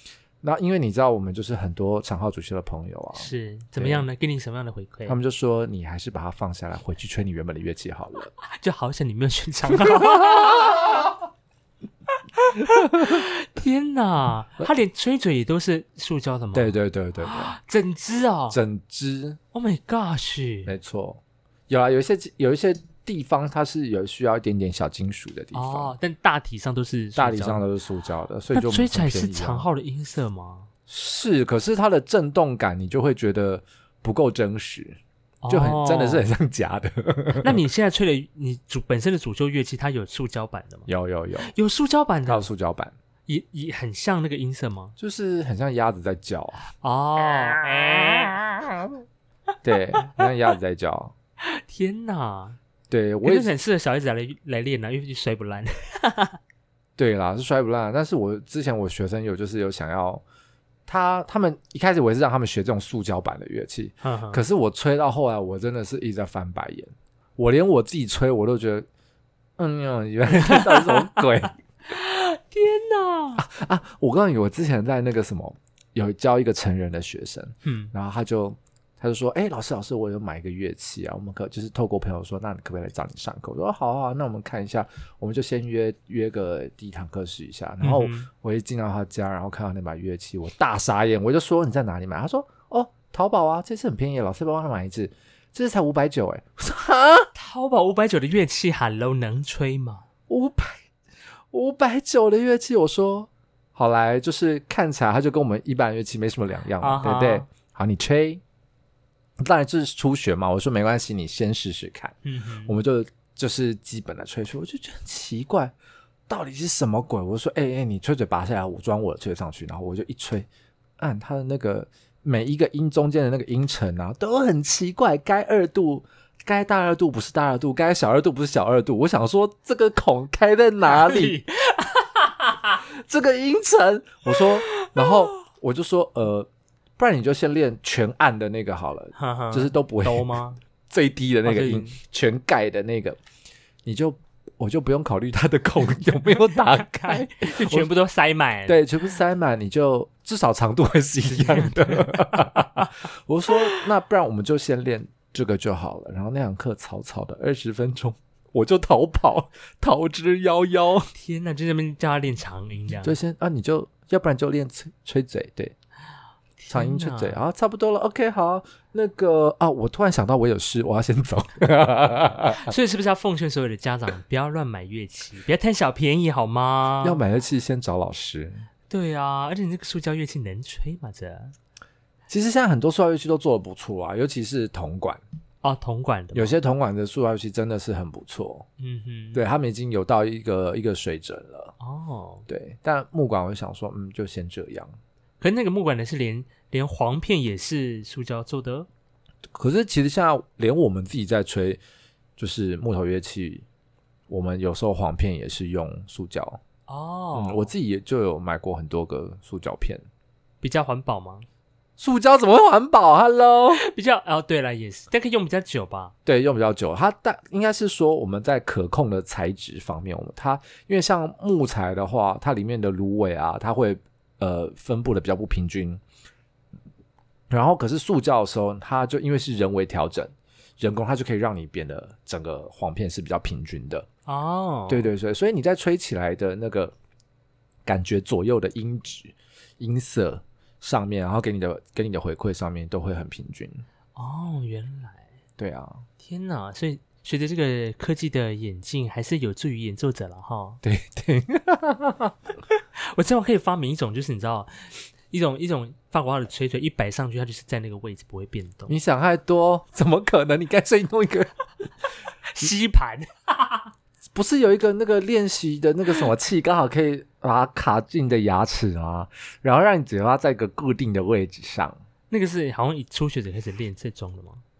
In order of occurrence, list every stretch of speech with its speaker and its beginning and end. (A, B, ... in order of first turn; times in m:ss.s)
0:00.4-0:04.1 A
0:03.2-0:05.2 B
0:05.1-0:08.3 A
0:08.5-0:11.0 B
0:09.9-0:10.9 A
0:12.4-0:18.6 B
0:12.9-0:13.2 A
0:16.5-0:17.6 A
0:18.5-0:19.4 A
0:19.5-0:20.7 B
0:20.6-0:25.9 A
0:25.5-0:27.6 B
0:27.1-0:29.7 A
0:28.5-0:30.7 B
0:30.9-0:37.6 A
0:35.4-0:36.2 B
0:37.4-0:40.9 B
0:40.9-0:41.5 A
0:41.4-0:42.5 B
0:42.3-0:42.9 A
0:43.3-0:44.9 B
0:45.0-0:46.6 A
0:46.8-0:48.4 B
0:49.6-0:51.1 A
0:51.4-0:52.6 B
0:52.9-0:53.5 A
0:53.2-0:56.4 B
0:57.0-1:00.2 A
1:00.9-1:08.9 A
1:04.0-1:04.4 B
1:09.6-1:11.5 A
1:10.3-1:11.3 B
1:11.9-1:13.4 B
1:13.4-1:37.3 A
1:17.6-1:17.9 B
1:27.8-1:28.3 B
1:37.3-1:40.0 B
1:40.3-1:40.8 A
1:41.5-1:48.4 A
1:46.8-1:47.5 B
1:49.4-1:52.1 A
1:52.2-1:52.7 B
1:52.6-1:55.7 A
1:56.3-2:00.5 A
2:01.0-2:11.4 A
2:10.8-2:12.8 B
2:12.8-2:23.2 A
2:14.3-2:15.4 B
2:19.1-2:20.6 B
2:21.4-2:22.0 B
2:23.8-2:27.9 A
2:26.4-2:28.8 B
2:28.7-2:41.1 A
2:31.3-2:32.9 B
2:33.5-2:33.8 B
2:41.1-2:43.2 B
2:43.0-2:45.7 A
2:46.6-2:47.4 B
2:46.7-2:52.7 A
2:52.5-2:57.2 B
2:57.0-2:58.7 A
2:58.9-3:01.5 B
3:02.3-3:05.2 A
3:05.6-3:06.5 B
3:06.3-3:08.7 A
3:08.8-3:09.4 B
3:09.3-3:11.7 A
3:11.8-3:12.4 B
3:12.5-3:14.9 A
3:15.4-3:18.9 B
3:19.5-3:21.8 A
3:22.4-3:23.6 A
3:24.3-3:26.6 A
3:26.9-3:27.7 B
3:27.3-3:30.0 A
3:30.6-3:31.4 B
3:32.0-3:33.8 A
3:33.7-3:36.1 B
3:36.2-3:46.0 A
3:47.5-3:54.1 A
3:54.3-3:55.1 B
3:54.9-3:56.9 A
3:57.8-4:03.8 A
4:04.2-4:05.3 B
4:05.6-4:06.0 A
4:06.2-4:10.8 B
4:10.8-4:12.3 A
4:13.0-4:19.0 B
4:18.9-4:21.5 A
4:22.4-4:23.9 B
4:24.3-4:32.0 A
4:32.3-4:34.6 B